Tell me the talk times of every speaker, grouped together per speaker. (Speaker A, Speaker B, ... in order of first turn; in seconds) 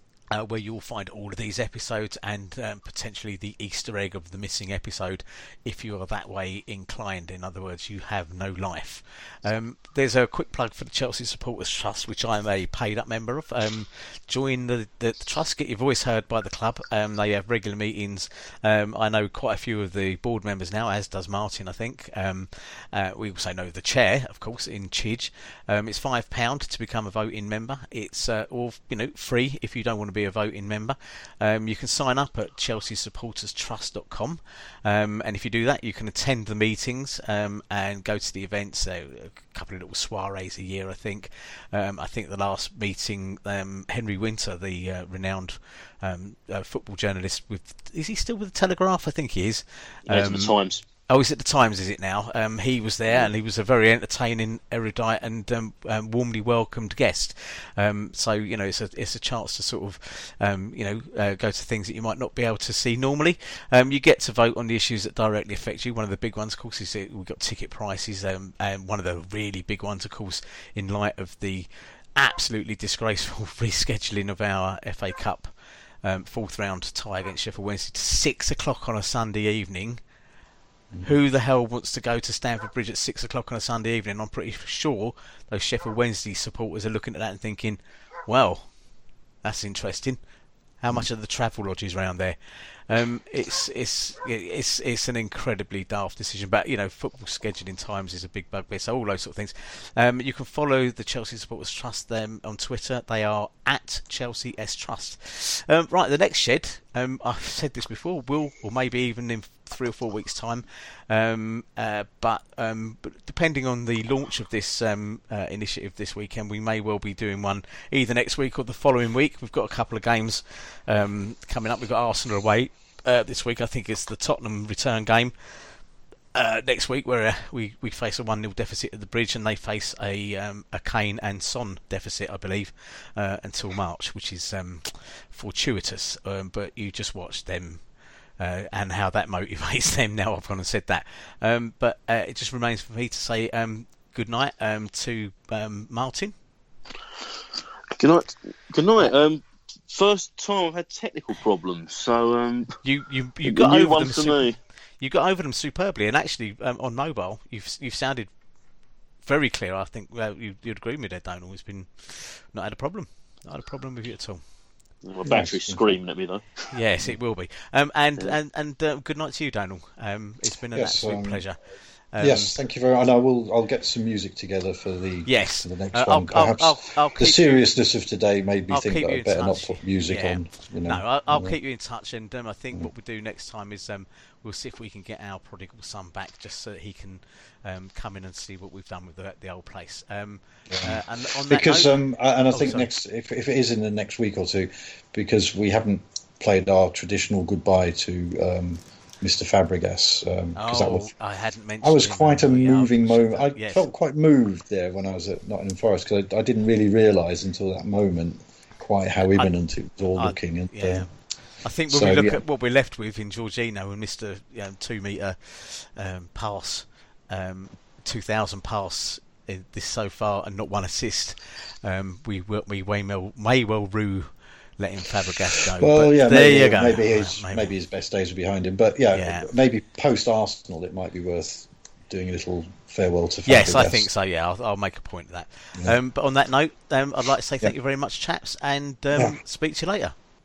Speaker A: 0.3-50.5, 51.1-80.0, 81.0-88.7, 89.4-90.2, 90.8-92.4, 92.9-125.3, 126.3-137.8, 138.4-146.3, 152.8-154.4, 155.0-158.3, 159.2-164.4, 166.7-171.6, 172.1-172.5, 175.2-177.6, 178.7-191.9, 192.5-192.9, 200.6-203.9, 210.2-211.1, 211.6-227.7, 229.1-229.5, 233.4-240.1
Speaker B: 50.1-50.8, 147.9-152.7, 153.5-154.6, 165.0-166.4
Speaker C: 165.2-166.0, 170.7-171.4, 172.2-181.5, 190.7-201.1, 201.8-211.1, 211.9-212.4, 225.6-234.1